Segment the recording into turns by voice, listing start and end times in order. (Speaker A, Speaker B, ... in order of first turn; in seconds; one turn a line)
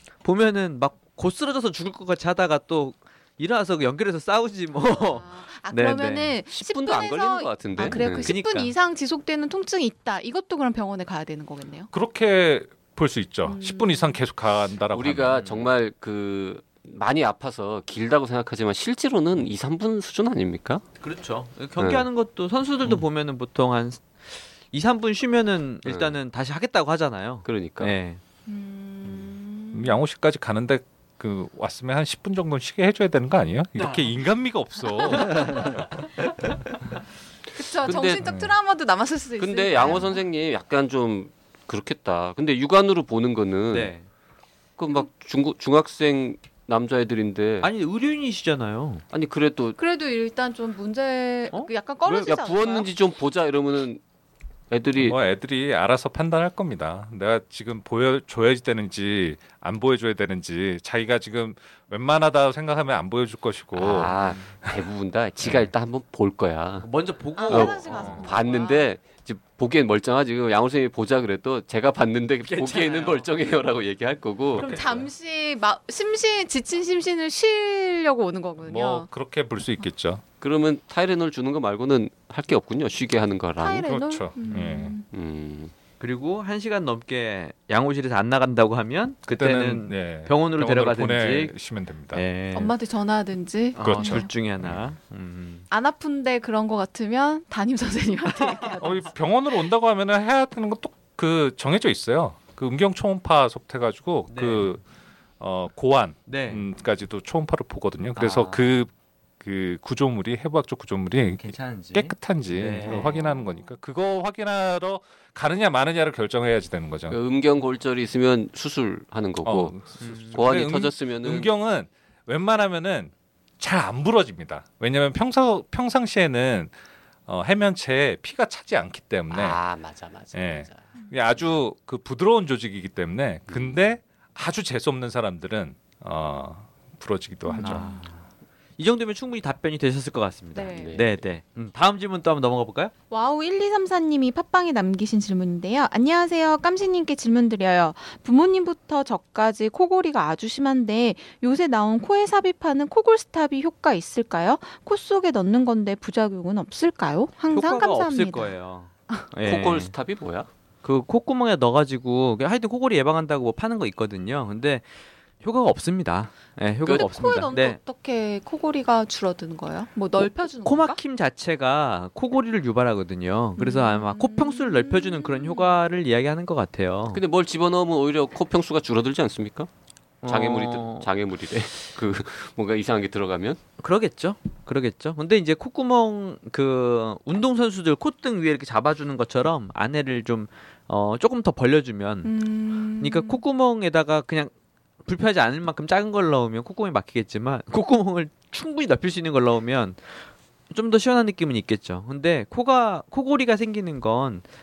Speaker A: 0.2-6.3
Speaker B: 4.9-11.9
Speaker C: 6.5-8.4
Speaker A: 7.9-8.7
Speaker D: 11.9-15.5
Speaker B: 13.4-14.2
Speaker C: 14.9-20.8
Speaker A: 15.4-15.7
Speaker A: 21.0-24.1
Speaker C: 21.8-22.1
Speaker A: 24.7-28.2
Speaker C: 25.8-26.1
Speaker C: 27.4-27.9
Speaker B: 28.5-30.0
Speaker D: 29.7-35.8
Speaker A: 33.8-34.1
Speaker B: 35.1-35.8
Speaker B: 37.5-40.2
Speaker C: 37.8-38.2
Speaker D: 38.2-38.5
Speaker C: 39.4-43.9
Speaker A: 43.7-44.0
Speaker C: 44.8-47.7
Speaker A: 47.6-49.0
Speaker C: 49.1-49.8
Speaker B: 49.8-52.9
Speaker C: 52.0-54.0
Speaker C: 54.7-55.2
Speaker D: 55.0-64.2
Speaker C: 63.8-66.9
Speaker D: 65.4-65.7
Speaker A: 66.8-68.3
Speaker B: 67.4-68.9
Speaker C: 67.5-74.8
Speaker D: 67.8-68.3
Speaker A: 72.5-73.3
Speaker B: 74.6-79.1
Speaker A: 74.6-74.8
Speaker D: 78.6-80.2
Speaker C: 80.4-83.8
Speaker B: 83.6-85.0
Speaker D: 83.8-85.0
Speaker C: 85.1-85.7
Speaker A: 86.0-91.5
Speaker D: 89.3-92.2
Speaker A: 92.1-92.7
Speaker B: 92.5-94.3
Speaker A: 93.8-95.7
Speaker D: 93.8-94.8
Speaker B: 95.7-99.1
Speaker A: 98.3-98.8
Speaker D: 98.8-104.8
Speaker A: 104.3-104.8
Speaker D: 105.4-117.2
Speaker A: 106.3-106.6
Speaker A: 108.2-108.7
Speaker A: 111.4-113.2
Speaker B: 112.9-113.6
Speaker C: 117.1-121.5
Speaker D: 119.4-126.7
Speaker A: 120.0-120.5
Speaker D: 127.3-129.6
Speaker C: 129.3-130.9
Speaker D: 130.3-138.0
Speaker C: 133.5-133.8
Speaker B: 137.4-138.0
Speaker A: 137.6-138.2
Speaker A: 138.8-142.9
Speaker B: 140.5-141.0
Speaker C: 140.7-141.1
Speaker B: 143.1-158.5
Speaker A: 157.5-159.9
Speaker C: 159.4-160.5
Speaker A: 160.8-164.8
Speaker A: 165.4-167.8
Speaker C: 166.8-167.1
Speaker B: 166.9-171.0
Speaker A: 170.2-177.2
Speaker B: 173.6-175.8
Speaker C: 177.1-179.7
Speaker A: 180.2-181.1
Speaker C: 180.2-183.6
Speaker A: 183.8-192.3
Speaker B: 192.2-193.4
Speaker A: 193.0-194.5
Speaker A: 195.0-200.2
Speaker A: 200.7-204.4